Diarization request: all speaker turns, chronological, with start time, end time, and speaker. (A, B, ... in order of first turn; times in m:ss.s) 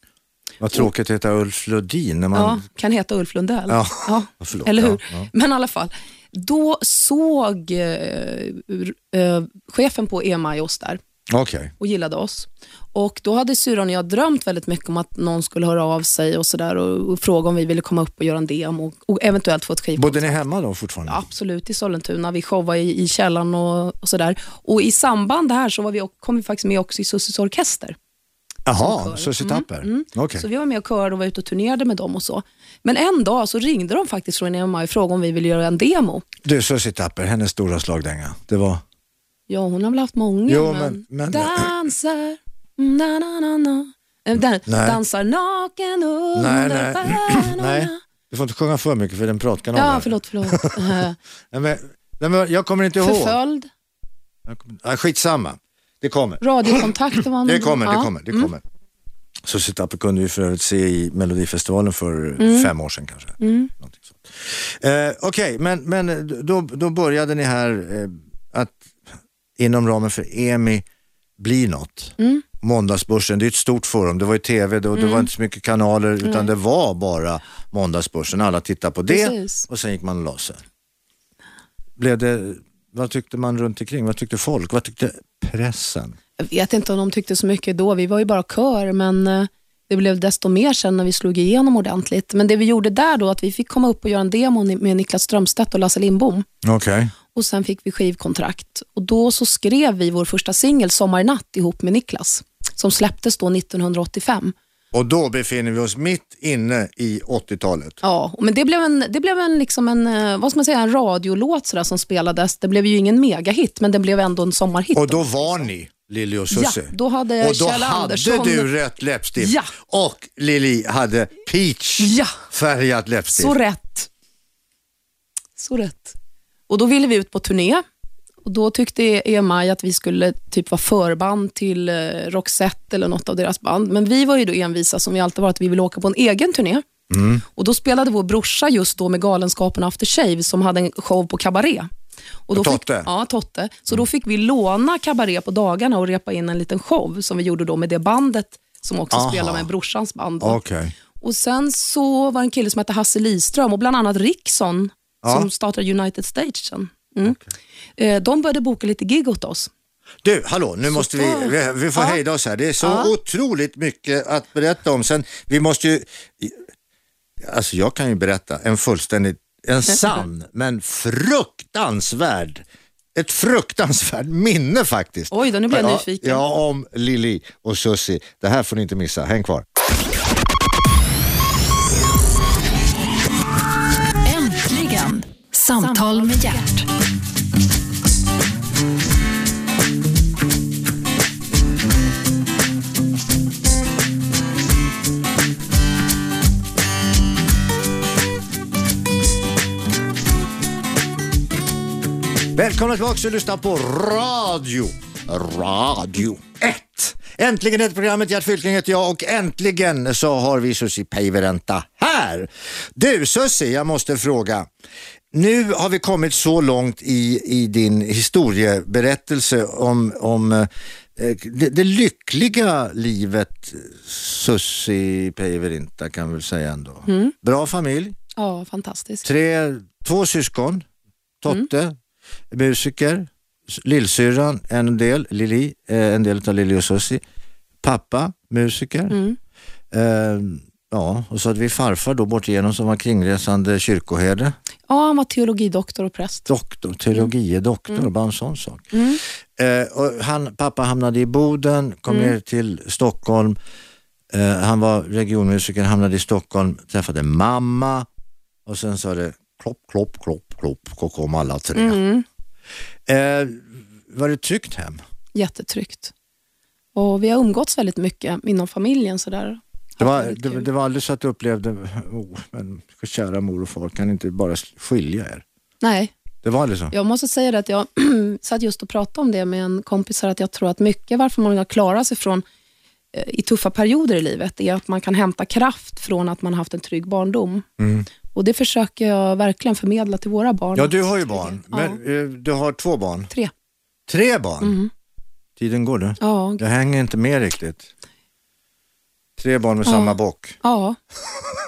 0:00.6-0:02.6 A
0:02.3-0:11.0 B
0:03.7-0:05.3 A
0:11.3-0:11.7 A
0:11.8-0:20.4 B
0:20.0-0:21.2 A
0:21.1-0:28.0 B
0:28.6-0:30.4 A
0:28.8-0:36.2 B
0:36.4-0:38.8 A
0:39.5-0:48.0 B
0:40.5-0:41.7 A
0:44.6-0:45.0 A
0:46.4-0:51.0 A
0:49.7-0:51.2 B
0:51.5-0:53.4 A
0:53.0-0:53.7 B
0:54.4-0:56.9 A
0:56.4-0:58.5 B
0:57.4-0:58.6 A
0:59.4-1:08.9 A
1:02.4-1:02.7 B
1:03.4-1:03.7 B
1:09.6-1:10.8 A
1:11.4-1:20.6 A
1:12.2-1:12.4 B
1:14.9-1:15.3 B
1:16.2-1:16.5 B
1:19.1-1:19.7 B
1:22.0-1:26.2 A
1:26.4-1:36.4 B
1:36.6-1:37.1 A
1:37.3-1:44.5 B
1:44.9-1:48.0 A
1:48.0-1:55.4 B
1:54.9-2:03.6 A
1:56.5-1:58.7 B
1:59.4-1:59.7 B
2:02.0-2:02.4 B
2:03.3-2:04.1 B
2:05.6-2:06.2 B
2:06.7-2:07.8 B
2:08.4-2:16.8 B
2:17.1-2:17.4 A
2:17.5-2:21.9 B
2:22.5-2:30.6 B
2:22.5-2:23.1 A
2:29.1-2:29.7 A
2:30.4-2:30.9 A
2:31.2-2:37.4 B
2:35.2-2:35.5 A
2:38.0-2:39.7 B
2:40.2-2:46.6 A
2:40.9-2:42.2 B
2:42.8-2:43.1 B
2:47.4-2:52.6 A
2:53.1-2:59.6 A
2:55.3-2:56.4 B
3:04.2-3:06.9 C
3:22.5-3:34.7 A
3:35.3-3:48.2 A
3:47.1-3:47.3 B
3:48.4-3:49.2 B
3:49.2-3:50.8 A
3:51.4-3:52.0 A
3:52.5-3:57.2 A
3:57.8-3:59.2 A
3:59.1-3:59.4 B
3:59.9-4:04.5 A
4:04.9-4:06.5 B
4:06.5-4:09.0 A
4:08.9-4:09.2 B
4:09.6-4:13.6 A
4:12.1-4:12.3 B
4:14.3-4:18.1 A
4:18.6-4:22.0 A
4:21.7-4:22.2 B
4:23.1-4:25.0 A
4:25.3-4:26.1 B
4:26.9-4:30.7 B
4:30.0-4:35.4 A
4:35.8-4:36.1 B
4:36.4-4:36.9 A
4:36.9-4:42.4 B
4:43.1-4:47.6 B
4:47.8-4:48.1 A
4:48.3-4:52.0 B
4:50.7-4:53.3 A
4:54.1-4:54.8 A
4:54.6-4:54.9 B
4:55.6-4:57.9 A
4:56.2-4:56.6 B
4:59.4-5:00.6 A
4:59.8-5:01.0 B